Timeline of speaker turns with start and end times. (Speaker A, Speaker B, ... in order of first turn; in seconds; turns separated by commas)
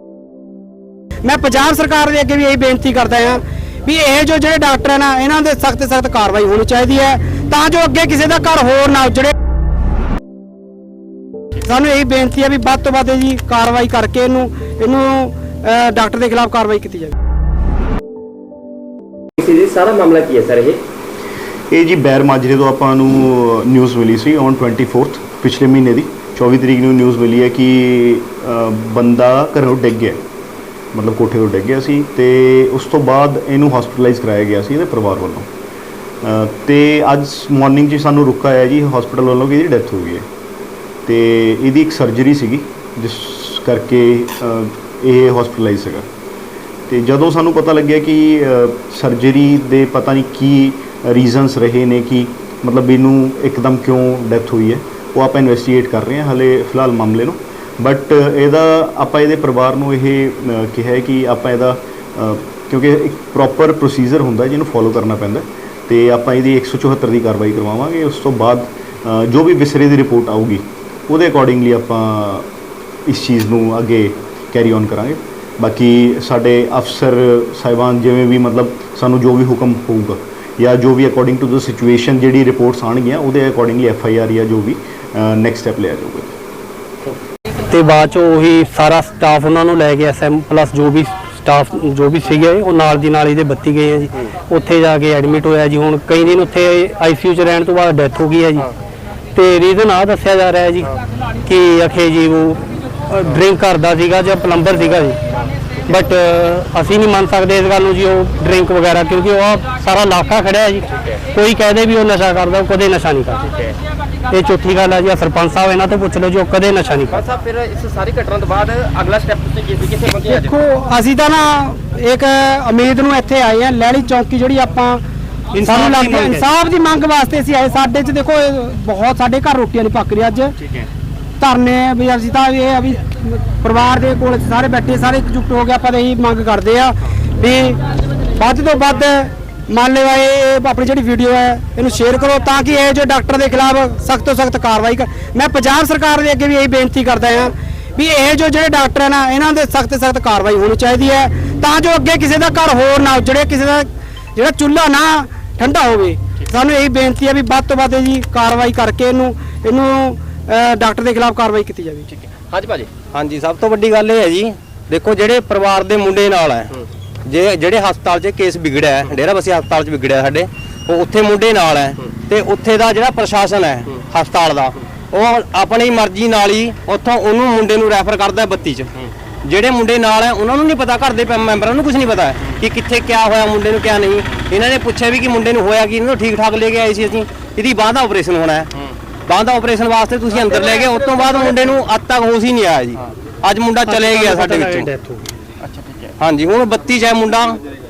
Speaker A: 1.2-9.3, Speaker A: 11.6-17.1, Speaker B: 19.4-20.8, Speaker C: 21.7-30.2, Speaker C: 30.9-35.5, Speaker C: 36.2-40.3, Speaker C: 41.1-46.1, Speaker C: 46.9-72.5, Speaker C: 73.1-86.3, Speaker D: 87.7-98.7, Speaker D: 99.3-105.2, Speaker D: 105.8-113.5, Speaker D: 114.3-117.2, Speaker B: 117.1-120.5, Speaker A: 120.2-125.0, Speaker D: 125.5-126.5, Speaker A: 125.6-130.5, Speaker A: 131.4-137.8, Speaker A: 138.3-162.1, Speaker B: 162.2-162.9, Speaker E: 163.1-166.7, Speaker E: 167.3-188.7, Speaker E: 189.3-194.9, Speaker D: 193.9-195.2, Speaker E: 196.2-197.6